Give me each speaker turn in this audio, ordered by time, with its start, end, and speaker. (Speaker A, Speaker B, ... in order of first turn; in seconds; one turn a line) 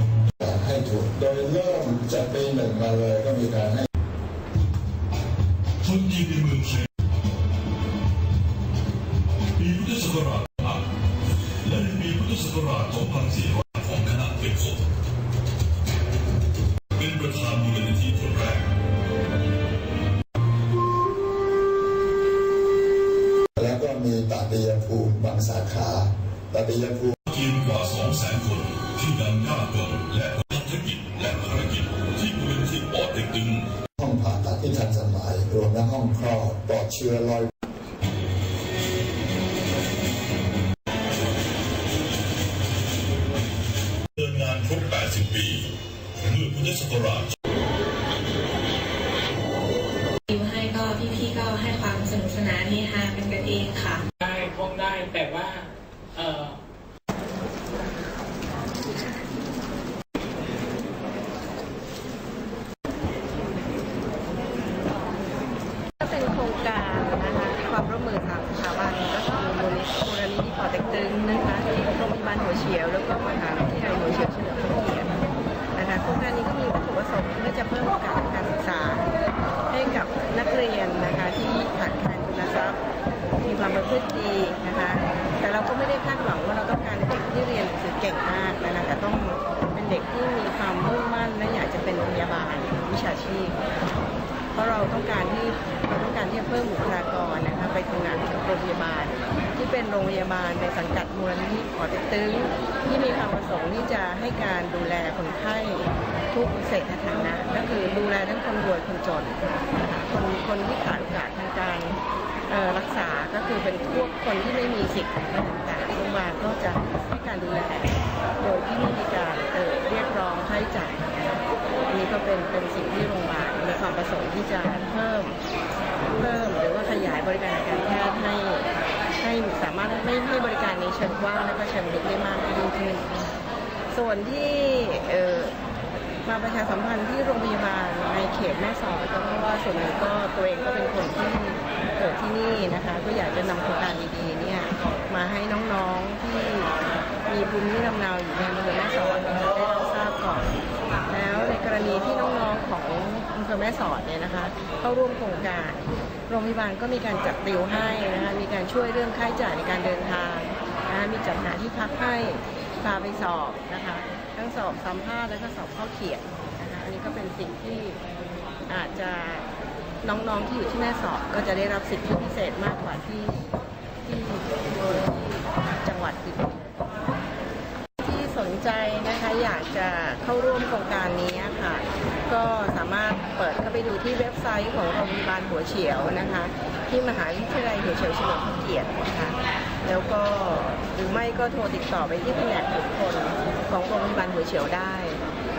Speaker A: 0.4-3.9
Speaker B: 5.8-6.8
Speaker B: 9.6-10.8
Speaker B: 11.6-14.8
Speaker B: 17.0-18.7
Speaker A: 23.6-27.2
Speaker B: 27.3-33.6
Speaker A: 34.0-37.5
Speaker B: 44.2-47.3
Speaker C: 50.3-54.0
Speaker D: 54.2-56.6
Speaker E: 66.0-75.2
Speaker E: 75.8-79.1
Speaker E: 79.7-82.8
Speaker E: 83.4-93.6
Speaker E: 94.5-121.1
Speaker E: 121.9-125.4
Speaker E: 126.1-128.7
Speaker E: 129.2-133.2
Speaker E: 133.9-135.6
Speaker E: 136.2-150.6
Speaker E: 151.1-168.0
Speaker E: 168.7-169.5
Speaker E: 170.0-173.5
Speaker E: 174.0-176.9
Speaker E: 178.0-195.2